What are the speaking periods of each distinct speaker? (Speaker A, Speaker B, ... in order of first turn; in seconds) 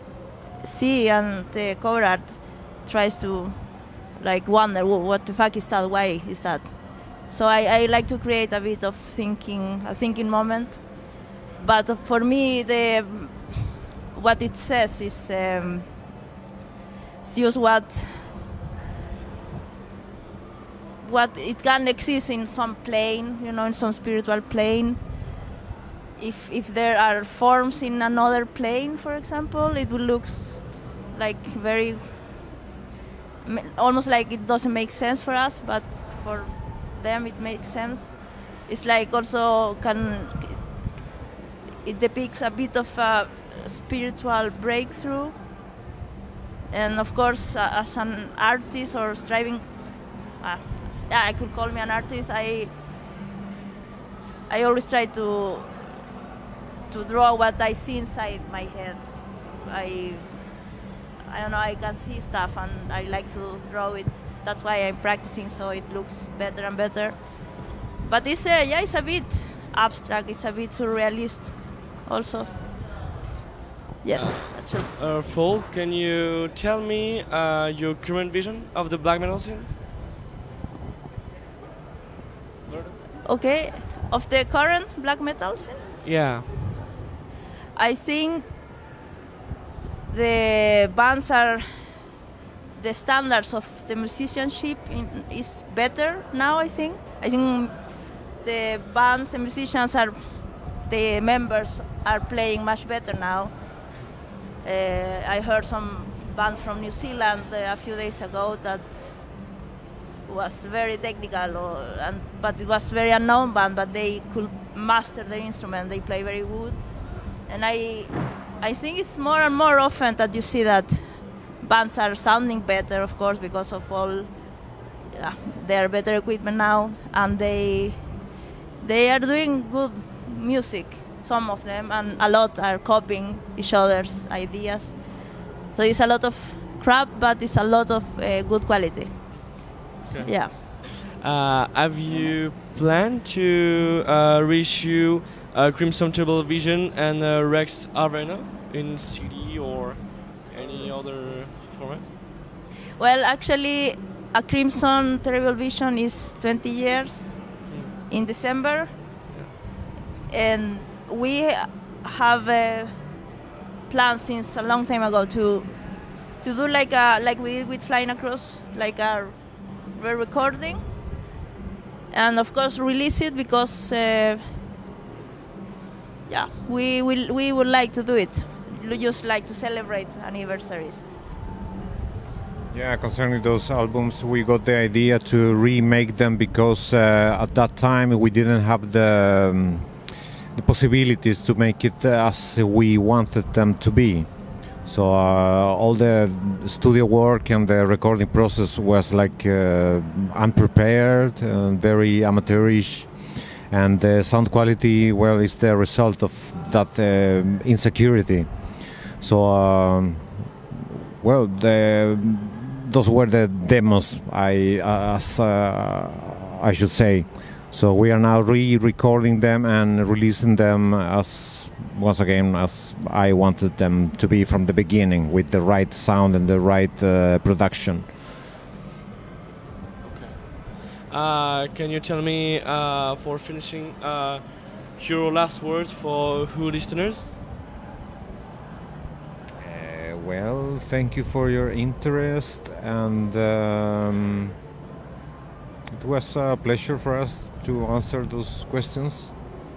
Speaker A: 0.6-15.9, 17.2-18.3, 21.0-25.0, 26.2-32.3, 33.4-40.6, 41.8-45.4, 46.7-49.7, 50.4-52.7, 54.5-55.8, 56.9-59.0, 59.6-60.3, 61.2-72.6, 74.0-74.9, 83.2-85.9, 87.7-88.5, 90.1-92.1, 92.7-97.8, 98.4-100.2, 100.9-103.5, 104.6-109.1, 110.3-116.8, 117.5-124.3, 125.1-128.0, 128.8-135.0, 135.7-139.6, 140.1-140.5, 142.1-142.3, 153.0-158.9, 160.3-162.9, 163.9-169.4, 169.9-170.8, 172.1-174.6, 176.3-181.0
Speaker B: 74.1-79.7, 82.7-82.9, 86.0-86.5, 140.0-152.1, 230.0-237.3
Speaker C: 182.7-190.0, 190.5-228.2, 239.6-244.5, 245.9-249.6